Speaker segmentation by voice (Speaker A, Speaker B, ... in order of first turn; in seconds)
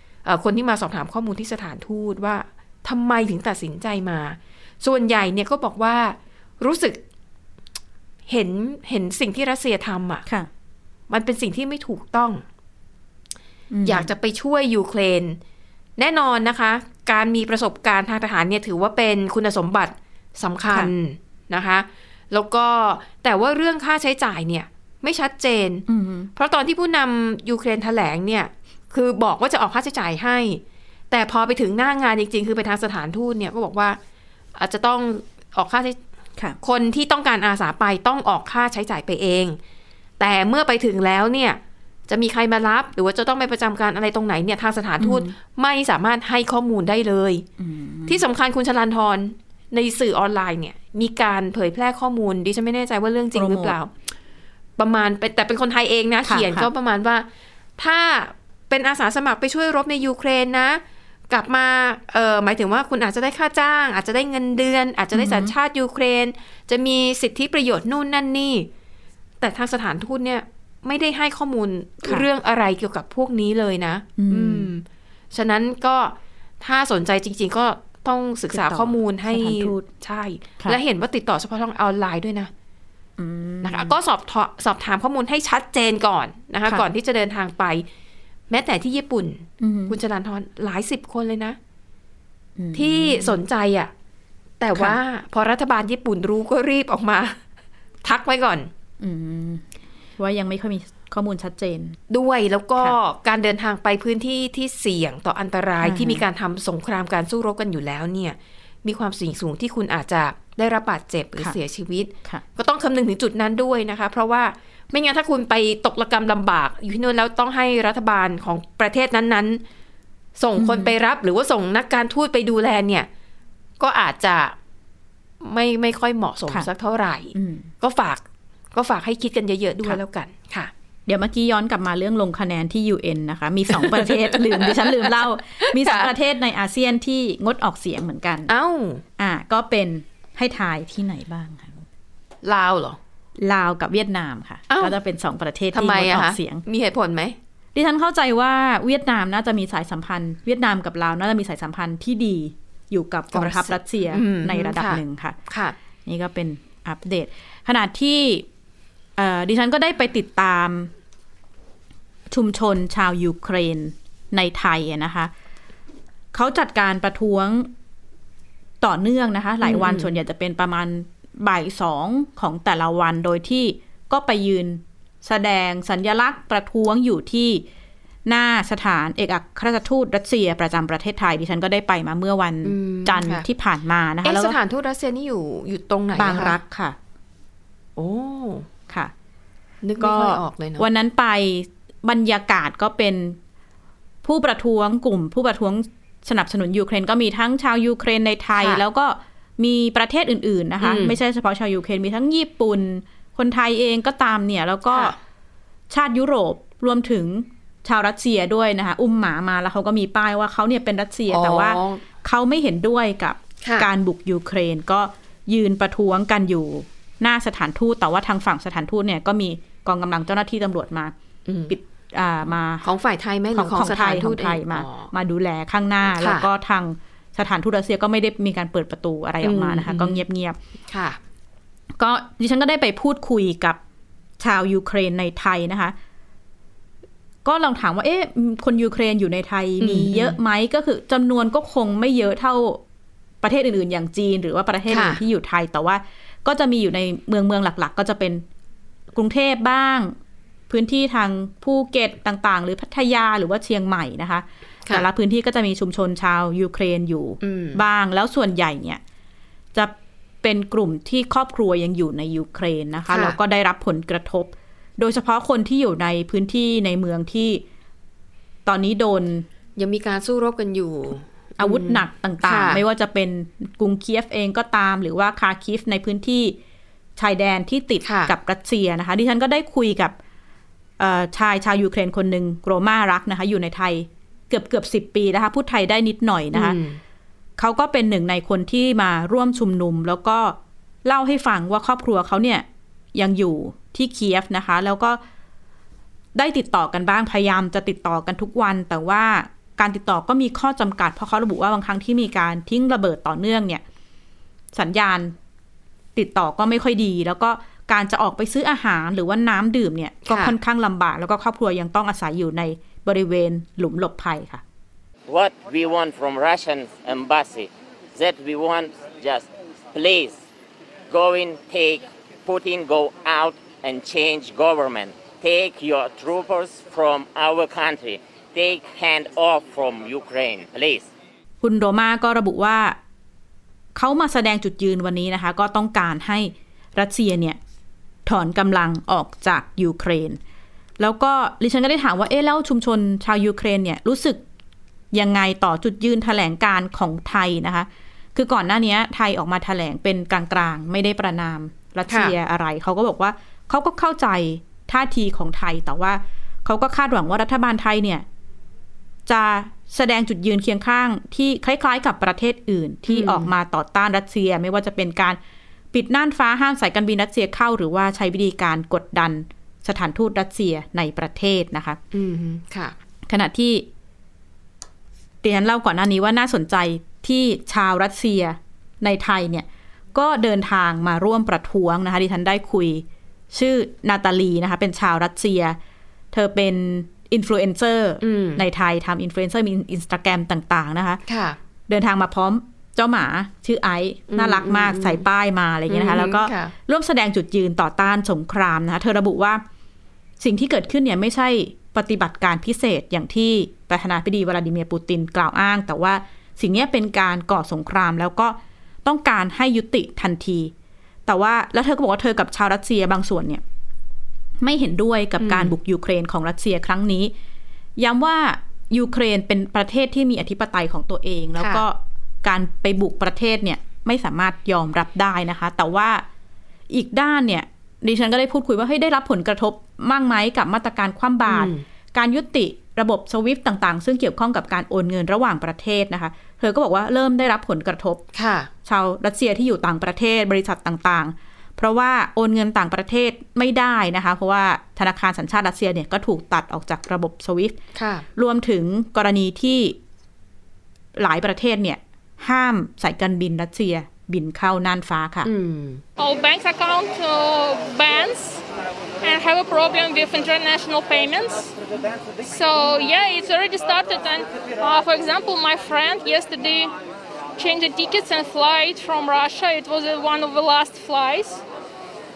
Speaker A: 0.2-7.0, 8.3-10.2, 11.1-12.4, 13.8-15.4, 16.0-34.0, 34.6-36.0, 36.6-39.6, 40.2-47.5, 48.1-53.9, 54.8-68.7, 69.4-82.5, 83.6-87.9, 88.5-91.6, 92.7-93.9, 94.6-97.4, 98.0-98.7, 102.1-119.6, 120.4-123.1, 123.8-124.6, 125.4-130.7, 133.7-136.1, 138.5-139.0, 142.4-143.0, 144.7-145.0, 145.7-147.4, 153.3-155.8, 169.6-170.1, 182.6-183.5, 184.2-186.6, 188.0-188.7, 189.8-190.9, 198.6-198.8, 200.8-201.2, 204.9-205.2, 211.3-212.0, 213.6-213.9, 221.5-221.8, 222.8-225.1, 226.2-226.5, 229.4-230.2, 230.9-231.2, 239.8-240.4, 244.9-245.2, 257.4-257.8, 263.1-263.4, 269.8-272.8, 278.1-278.3, 286.5-287.0, 310.3-310.6, 352.1-352.4, 363.1-363.5, 372.1-372.9, 388.2-388.6, 391.3-391.6, 394.3-395.2, 395.9-396.7, 415.4-415.8, 421.6-421.8, 431.5-431.8, 438.4-438.7, 447.9-448.3, 455.4-456.0
Speaker B: 13.7-14.1, 25.9-26.3, 45.0-45.3, 47.6-48.2, 53.3-53.8, 56.2-56.7, 65.1-65.5, 74.2-74.7, 78.5-79.9, 83.2-84.0, 89.6-90.0, 92.6-93.4, 99.0-99.7, 100.2-102.0, 105.8-106.2, 120.6-120.9, 127.3-127.7, 131.1-138.5, 139.2-141.9, 143.4-146.6, 147.8-155.4, 156.1-158.5, 159.2-160.9, 162.3-165.3, 166.3-167.7, 168.8-177.6, 178.3-184.6, 186.1-187.0, 190.0-193.4, 194.2-205.2, 205.9-221.1, 221.7-222.9, 223.5-230.6, 232.0-233.8, 234.4-235.9, 237.4-242.8, 243.4-248.4, 249.1-250.1, 250.7-259.0, 259.7-267.6, 268.6-269.4, 271.6-276.6, 277.2-280.1, 281.0-286.8, 287.6-295.2, 296.3-303.8, 304.7-305.4, 306.1-314.6, 331.6-333.0, 333.9-337.6, 338.3-340.4, 341.0-344.4, 345.1-358.2, 359.3-365.4, 365.9-372.0, 373.3-373.9, 375.4-385.8, 386.3-391.2, 391.9-399.6, 400.4-410.7, 411.3-413.6, 414.6-417.3, 418.0-426.2, 426.9-438.2, 438.9-447.8, 448.4-450.0, 451.1-455.5
Speaker C: 315.3-320.4, 321.1-331.1
Speaker D: 456.2-458.6, 459.2-461.8, 462.4-466.9, 467.6-471.6